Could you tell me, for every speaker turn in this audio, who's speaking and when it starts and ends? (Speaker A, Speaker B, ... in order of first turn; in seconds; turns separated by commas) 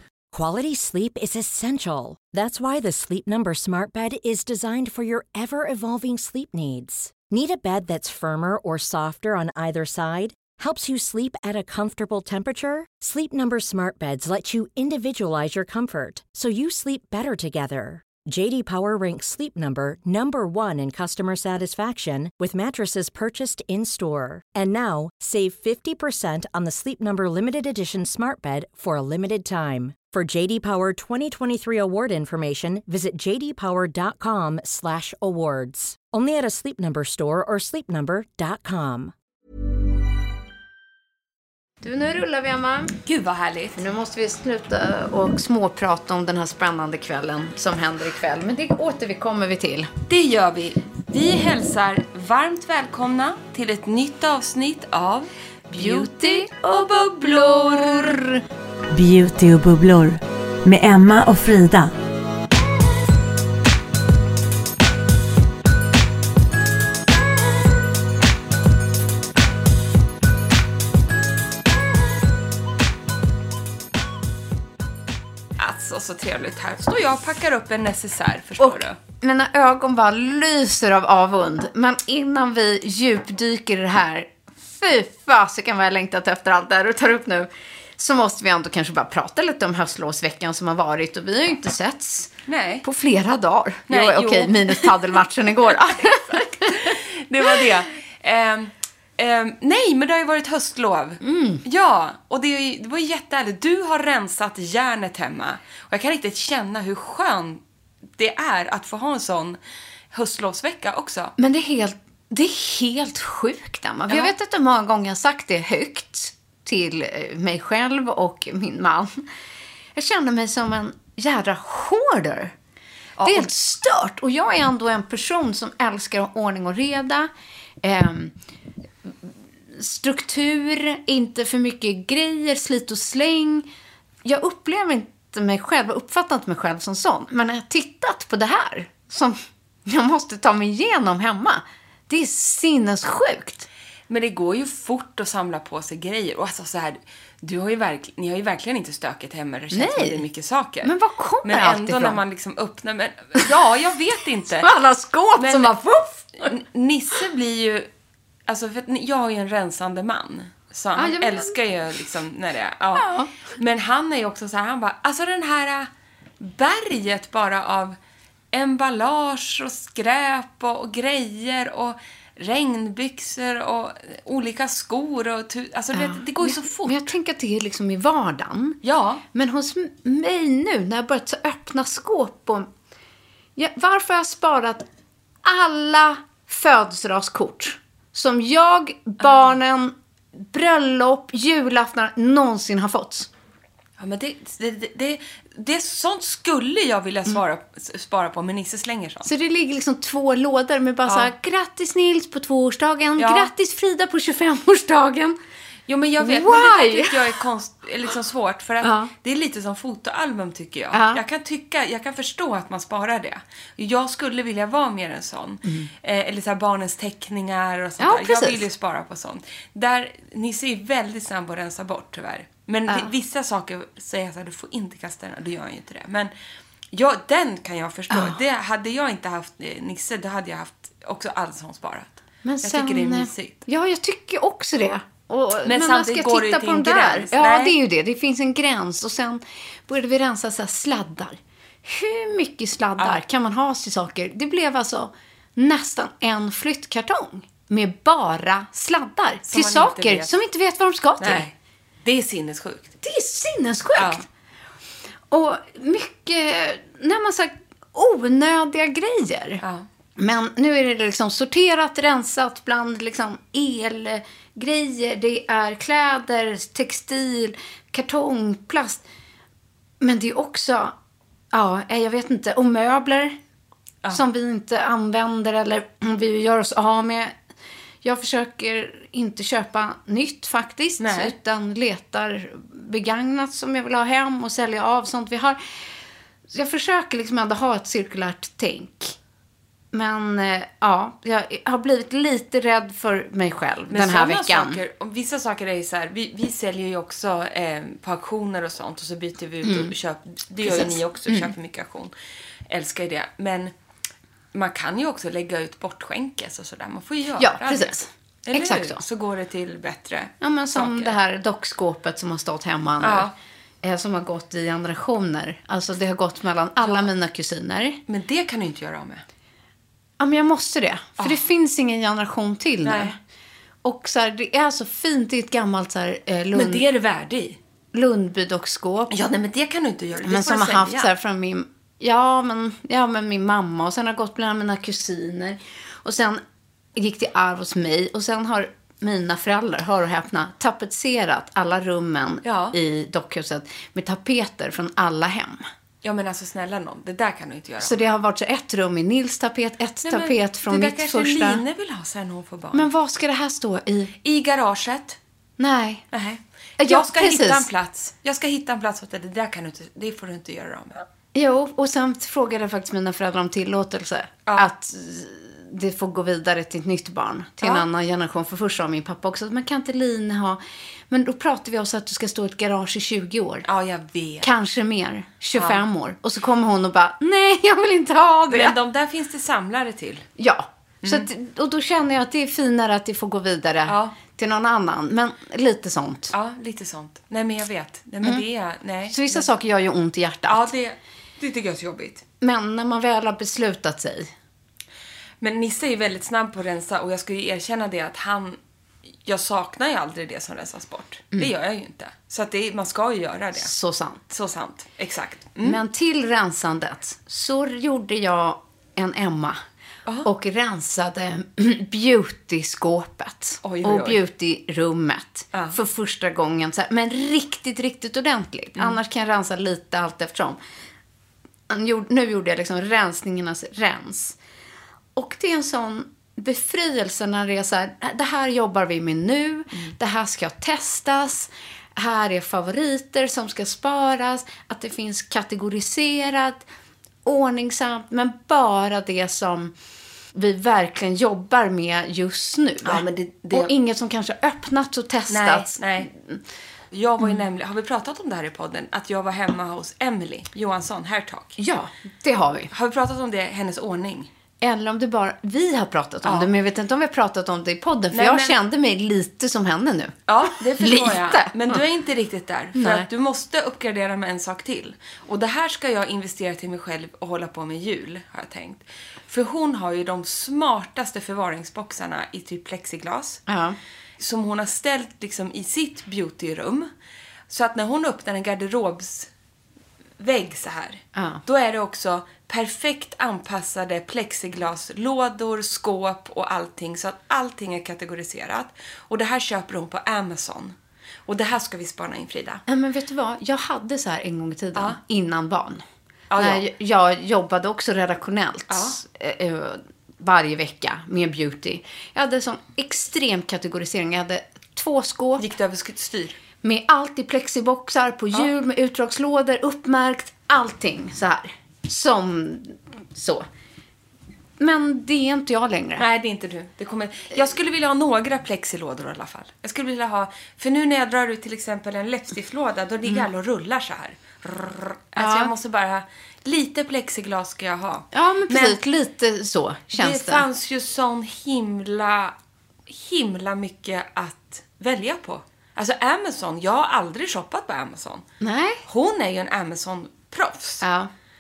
Speaker A: 0.3-39.1, Speaker B: 41.8-43.0, Speaker C: 43.0-43.8, Speaker B: 43.8-49.9, Speaker C: 50.1-58.2, Speaker B: 55.7-58.3, Speaker D: 58.9-61.9, Speaker C: 75.6-79.0, Speaker B: 78.6-92.3, Speaker C: 92.5-92.9, Speaker B: 92.8-96.9, Speaker C: 93.9-107.6, Speaker B: 101.2-101.6, Speaker C: 108.2-109.6, Speaker C: 110.1-111.3, Speaker B: 111.4-119.2, Speaker C: 114.1-114.3, Speaker B: 120.0-122.5, Speaker C: 123.2-123.5, Speaker B: 123.2-127.3, Speaker B: 127.8-128.3, Speaker B: 129.7-133.7, Speaker B: 134.2-143.7, Speaker C: 144.1-154.7, Speaker B: 149.7-150.2, Speaker B: 150.8-152.2, Speaker B: 154.6-156.5, Speaker C: 155.4-155.8, Speaker C: 156.4-157.9, Speaker C: 158.4-168.0, Speaker B: 160.9-161.6, Speaker B: 162.9-163.3, Speaker C: 168.5-177.1, Speaker B: 175.9-178.8, Speaker C: 178.8-179.2, Speaker B: 179.3-182.7, Speaker B: 183.6-184.9, Speaker B: 185.4-193.3, Speaker C: 194.0-199.3, Speaker B: 199.2-205.4, Speaker C: 201.1-201.3, Speaker C: 203.2-203.5, Speaker C: 205.9-226.3, Speaker B: 206.2-207.4, Speaker B: 208.8-209.1, Speaker B: 210.9-211.2, Speaker B: 218.0-218.6, Speaker C: 226.9-233.6, Speaker B: 228.1-228.4, Speaker B: 232.4-251.5, Speaker C: 235.6-237.8, Speaker C: 249.5-250.3, Speaker C: 251.2-252.9, Speaker B: 253.0-254.2, Speaker C: 253.9-254.2, Speaker B: 255.3-259.6, Speaker C: 259.6-259.9, Speaker B: 260.2-269.0, Speaker B: 270.0-270.9, Speaker B: 271.5-273.4, Speaker B: 274.1-277.3, Speaker B: 278.0-285.6, Speaker C: 281.0-281.3, Speaker B: 286.5-289.1, Speaker B: 289.9-294.8, Speaker C: 293.9-302.1, Speaker B: 299.6-299.9, Speaker B: 300.6-301.5, Speaker C: 302.7-303.7, Speaker C: 304.5-311.1, Speaker B: 307.4-309.0, Speaker B: 310.4-313.3, Speaker C: 313.0-313.3, Speaker B: 313.8-318.0, Speaker C: 316.8-317.1, Speaker C: 318.1-319.2, Speaker B: 320.2-323.2, Speaker C: 322.8-323.1, Speaker B: 323.8-326.8, Speaker C: 326.5-327.6, Speaker B: 327.9-329.1, Speaker C: 329.1-331.1, Speaker B: 330.2-336.4, Speaker B: 336.9-345.6, Speaker C: 342.4-342.8, Speaker C: 346.0-348.1, Speaker B: 347.8-351.6, Speaker C: 350.0-352.9, Speaker B: 352.7-354.1, Speaker C: 354.2-355.2, Speaker B: 355.6-356.0, Speaker C: 356.1-361.0, Speaker B: 356.8-357.7, Speaker B: 361.3-373.6, Speaker C: 373.6-374.5, Speaker B: 374.4-378.8, Speaker C: 375.5-375.8, Speaker C: 378.5-380.3, Speaker B: 380.4-386.3, Speaker C: 381.0-381.3, Speaker C: 383.9-384.1, Speaker C: 386.3-389.5, Speaker B: 389.1-390.7, Speaker C: 390.5-392.2, Speaker B: 392.4-394.3, Speaker C: 395.4-398.6, Speaker C: 399.2-403.7, Speaker B: 403.6-404.2, Speaker C: 404.3-405.8, Speaker B: 405.6-409.6, Speaker B: 410.2-420.6, Speaker C: 413.6-414.2, Speaker B: 421.7-424.4, Speaker B: 425.1-436.6, Speaker B: 437.2-439.8, Speaker B: 440.3-446.4, Speaker C: 442.8-443.7, Speaker C: 445.3-446.1, Speaker C: 446.9-451.6, Speaker B: 451.6-452.7, Speaker C: 452.7-454.3, Speaker B: 454.6-461.8, Speaker C: 456.2-456.5, Speaker C: 458.1-458.5, Speaker C: 460.3-473.4, Speaker B: 462.8-463.1, Speaker B: 473.5-473.8, Speaker C: 474.2-476.9, Speaker C: 477.5-479.3, Speaker C: 480.2-492.6, Speaker B: 481.1-481.4, Speaker B: 492.7-495.8, Speaker C: 496.3-496.6, Speaker B: 496.4-505.4, Speaker C: 498.7-499.0, Speaker C: 505.4-506.4, Speaker B: 506.6-513.5, Speaker B: 514.6-516.0, Speaker C: 516.0-528.8, Speaker B: 525.2-525.5, Speaker B: 528.1-530.5, Speaker C: 529.9-532.4, Speaker C: 532.9-538.2, Speaker B: 538.4-538.8, Speaker C: 538.9-540.8, Speaker B: 540.8-541.1